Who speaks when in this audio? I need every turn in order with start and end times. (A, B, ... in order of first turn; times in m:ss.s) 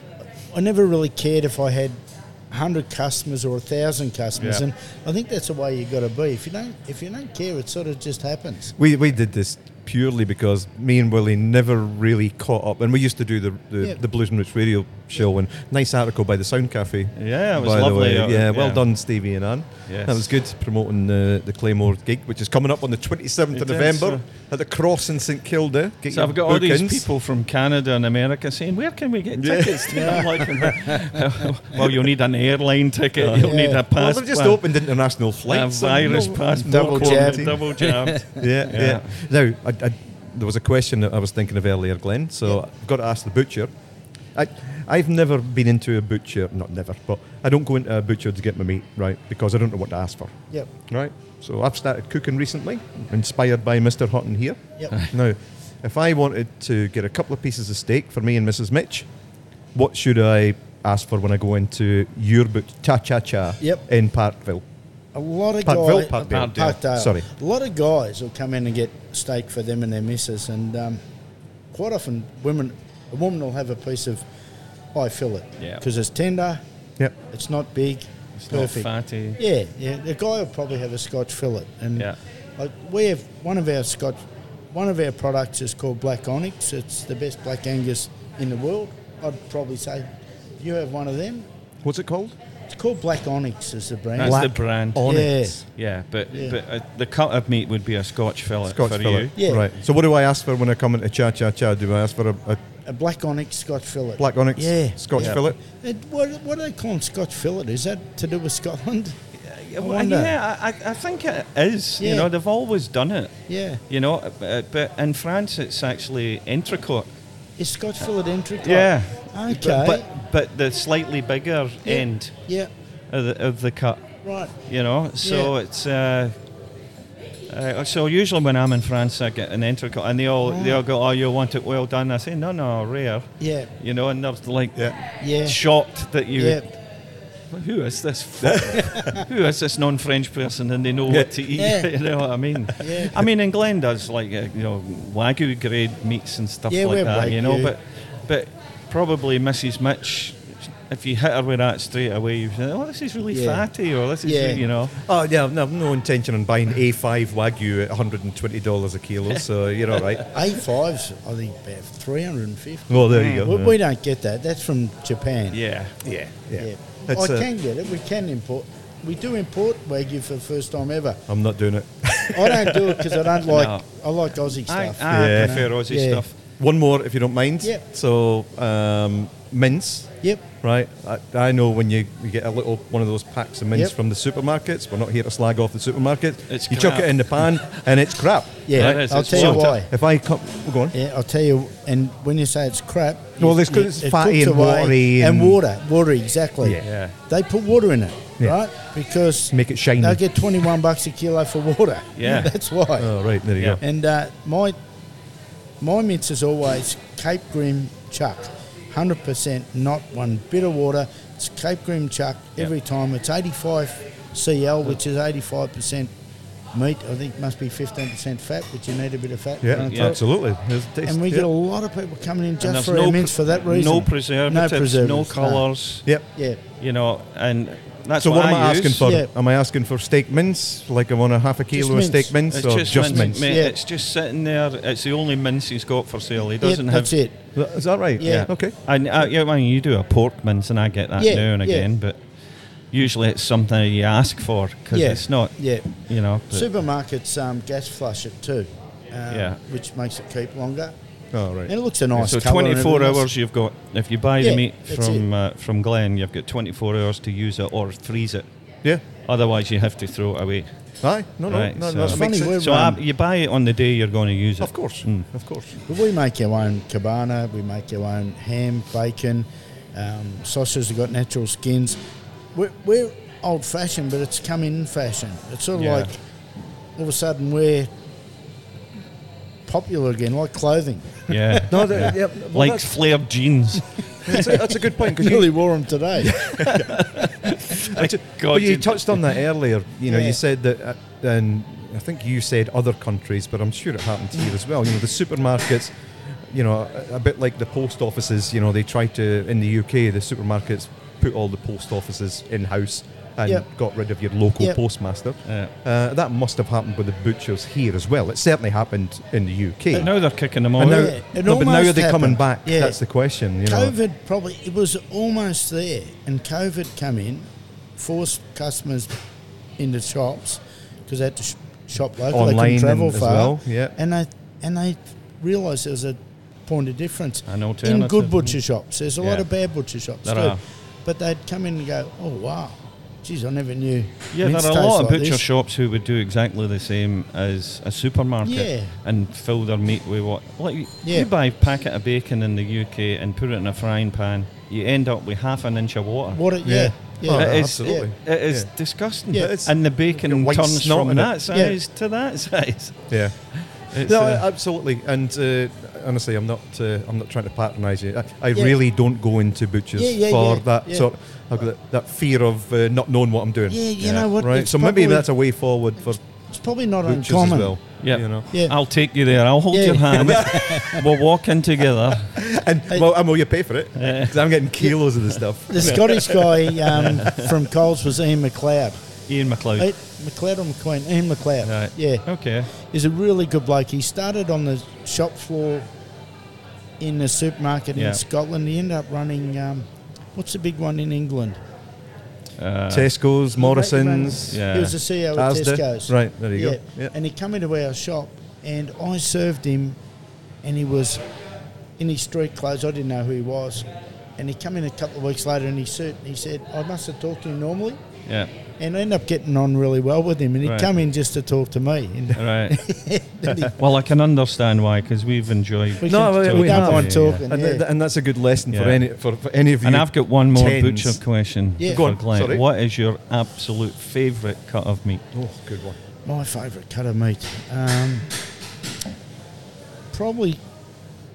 0:00.5-0:08.7 A
0:04.4-0:04.6 B
0:08.8-0:27.0 C
0:17.2-0:18.8 B
0:19.9-0:20.3 B
0:23.5-0:24.2 B
0:26.1-0:34.7 B
0:29.4-0:30.3 C
0:29.9-0:31.0 A
0:33.2-0:37.6 C
0:33.3-0:33.8 A
0:35.5-0:39.1 B
0:36.5-0:38.5 A
0:38.4-0:43.7 C
0:44.3-0:59.1 C
0:59.7-1:04.6 C
1:05.1-1:11.0 A
1:05.6-1:07.3 C
1:06.3-1:06.5 B
1:11.7-1:14.2 A
1:14.9-1:16.6 A
1:17.3-1:31.5 A
1:18.4-1:19.4 B
1:31.8-1:32.3 C
1:32.7-1:35.6 A
1:34.1-1:39.3 B
1:34.2-1:35.6 C
1:36.3-1:36.6 A
1:38.7-1:42.6 C
1:39.4-1:39.7 A
1:42.8-1:49.2 A
1:44.2-1:45.6 C
1:49.4-1:57.1 B
1:49.8-1:50.4 A
1:52.0-1:52.3 A
1:53.5-1:53.8 A
1:57.6-2:00.1 A
1:58.6-2:02.4 B
2:01.8-2:02.7 A
2:03.1-2:06.3 B
2:04.2-2:04.6 A
2:05.2-2:05.5 A
2:07.5-2:16.8 B
2:10.4-2:10.8 A
2:13.4-2:13.7 A
2:15.2-2:15.7 A
2:16.4-2:16.6 A
2:17.5-2:35.0 B
2:18.4-2:19.2 C
2:21.1-2:21.4 C
2:21.6-2:21.9 A
2:22.8-2:23.2 A
2:26.7-2:27.7 A
2:33.3-2:33.7 A
2:34.2-2:34.6 A
2:35.0-2:40.2 C
2:39.3-2:40.2 B
2:40.3-2:45.6 A
2:42.9-2:43.8 C
2:43.1-2:43.5 B
2:45.5-2:46.0 B
2:46.0-2:47.5 C
2:46.6-2:51.2 A
2:51.3-2:53.1 C
2:52.3-2:56.2 A
2:53.5-2:53.8 B
2:54.6-2:56.3 B
2:55.1-2:55.7 C
2:56.6-3:10.9 C
3:00.2-3:00.5 A
3:06.5-3:07.5 B
3:08.7-3:09.9 A
3:08.7-3:09.8 B
3:10.9-3:23.1 A
3:13.4-3:15.6 C
3:16.8-3:17.1 B
3:19.5-3:20.2 C
3:22.2-3:22.5 B
3:23.0-3:23.8 C
3:23.8-3:24.8 A
3:25.8-3:36.1 A
3:36.7-3:40.2 A
3:39.6-3:41.5 C
3:39.7-3:40.2 B
3:41.0-3:45.7 A
3:42.6-3:46.1 B
3:46.2-3:46.6 A
3:46.8-3:49.1 B
3:48.2-3:53.4 C
3:49.0-3:49.3 A
3:51.7-3:52.3 A
3:52.5-3:57.2 B
3:52.9-3:53.7 A
3:56.6-3:57.5 A
3:57.6-3:58.7 C
3:58.2-3:58.5 A
3:58.2-4:02.2 B
4:01.2-4:01.9 A
4:02.9-4:06.7 B
4:04.9-4:10.9 A
4:09.3-4:09.6 B
4:11.3-4:11.7 C
4:11.7-4:13.3 A
4:12.2-4:18.5 B
4:14.4-4:15.2 A
4:19.1-4:20.7 B
4:21.0-4:22.6 C
4:21.5-4:25.3 B
4:22.0-4:23.0 A
4:24.6-4:25.7 C
4:25.9-4:32.0 A
4:32.5-4:36.1 A
4:35.7-4:36.1 B
4:37.0-4:37.9 A
4:39.7-4:42.0 A
4:41.3-4:44.6 B
4:41.7-4:43.0 C
4:44.2-4:45.5 C
4:45.1-4:46.4 A
4:46.2-4:47.1 C
4:46.6-4:49.4 B
4:47.8-5:10.1 C
4:50.1-4:50.4 A
5:05.4-5:05.7 B
5:09.9-5:11.1 B
5:10.8-5:13.0 A
5:10.8-5:13.9 C
5:13.6-5:19.2 A
5:19.8-5:35.4 A
5:22.3-5:23.9 C
5:27.4-5:28.6 B
5:29.2-5:29.5 B
5:30.2-5:30.6 B
5:34.3-5:46.4 B
5:38.4-5:38.9 A
5:41.0-5:41.3 A
5:46.3-5:48.1 A
5:46.6-5:48.7 C
5:47.2-5:54.4 B
5:49.3-5:51.3 C
5:53.1-5:53.4 C
5:53.9-6:06.2 C
6:00.0-6:01.1 A
6:03.7-6:05.3 A
6:04.0-6:04.3 B
6:06.5-6:07.8 A
6:07.0-6:08.4 C
6:08.0-6:12.3 B
6:08.5-6:08.8 A
6:09.7-6:11.1 A
6:10.1-6:10.8 C
6:12.3-6:16.6 C
6:14.0-6:14.4 B
6:15.7-6:19.0 A
6:16.9-6:17.5 B
6:19.3-6:19.9 B
6:19.8-6:25.9 A
6:21.6-6:22.7 B
6:27.0-6:31.6 A
6:28.0-6:28.2 B
6:32.6-6:33.1 B
6:32.9-6:34.6 C
6:33.6-6:40.0 A
6:34.5-6:35.0 B
6:35.3-6:37.1 C
6:40.6-6:41.2 A
6:42.0-6:48.0 A
6:48.8-6:53.8 A
6:50.6-6:50.9 B
6:52.4-6:52.8 B
6:53.7-6:57.3 B
6:56.0-6:57.8 A
6:56.0-7:01.2 C
6:58.7-6:59.0 B
6:59.8-7:05.2 B
7:01.8-7:02.6 C
7:05.3-7:06.0 C
7:06.2-7:08.3 A
7:10.1-7:10.6 A